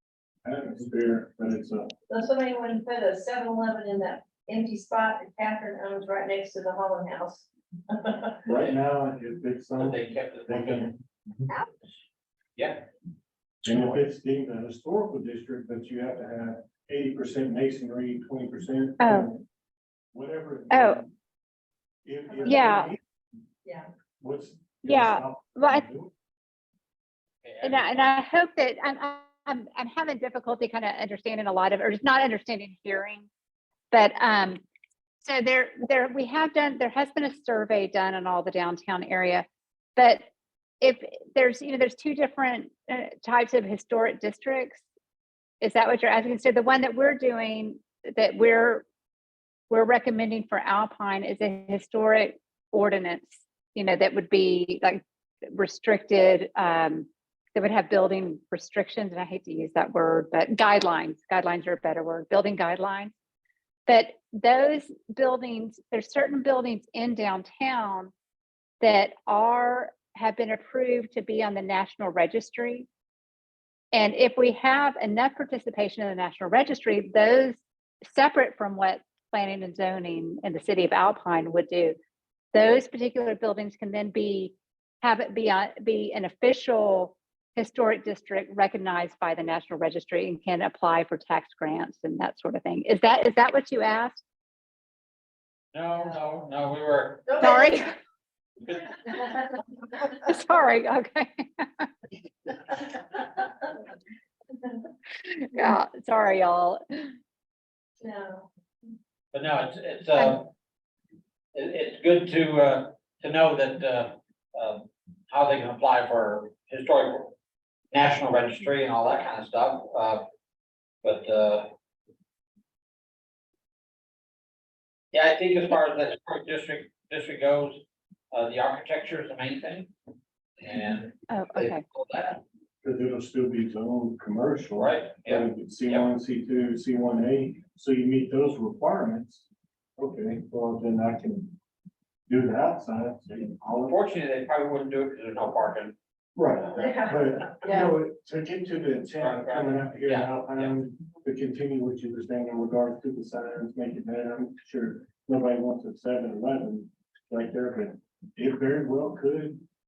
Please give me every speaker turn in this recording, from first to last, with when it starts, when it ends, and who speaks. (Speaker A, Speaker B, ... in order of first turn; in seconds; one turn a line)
Speaker A: 0.4-1.9
Speaker B: 2.1-8.3
Speaker A: 8.4-10.9
Speaker C: 9.8-10.9
Speaker C: 12.6-12.8
Speaker A: 13.6-19.4
Speaker C: 13.7-13.9
Speaker D: 19.0-19.3
Speaker A: 20.1-21.1
Speaker D: 20.7-21.0
Speaker A: 22.0-23.0
Speaker D: 22.4-22.9
Speaker A: 24.2-26.1
Speaker D: 24.8-25.8
Speaker C: 27.4-27.9
Speaker D: 27.6-33.3
Speaker D: 33.9-34.6
Speaker D: 35.2-39.5
Speaker D: 40.0-40.2
Speaker D: 40.8-44.8
Speaker D: 45.6-48.8
Speaker D: 49.7-63.1
Speaker D: 63.9-68.1
Speaker D: 68.8-72.9
Speaker D: 73.9-77.6
Speaker D: 78.1-82.0
Speaker D: 82.5-94.2
Speaker C: 95.7-97.4
Speaker D: 97.4-97.9
Speaker D: 99.9-101.9
Speaker D: 105.3-107.1
Speaker B: 108.0-108.5
Speaker C: 109.3-110.5
Speaker C: 111.5-117.3
Speaker C: 117.9-120.2
Speaker C: 121.0-121.7
Speaker C: 125.1-129.9
Speaker C: 130.6-132.4
Speaker D: 131.3-131.8
Speaker A: 132.8-139.4
Speaker C: 134.8-136.1
Speaker A: 140.0-141.5
Speaker A: 142.3-144.0
Speaker C: 143.8-145.9
Speaker A: 146.3-159.6
Speaker B: 146.8-147.0
Speaker C: 149.2-150.8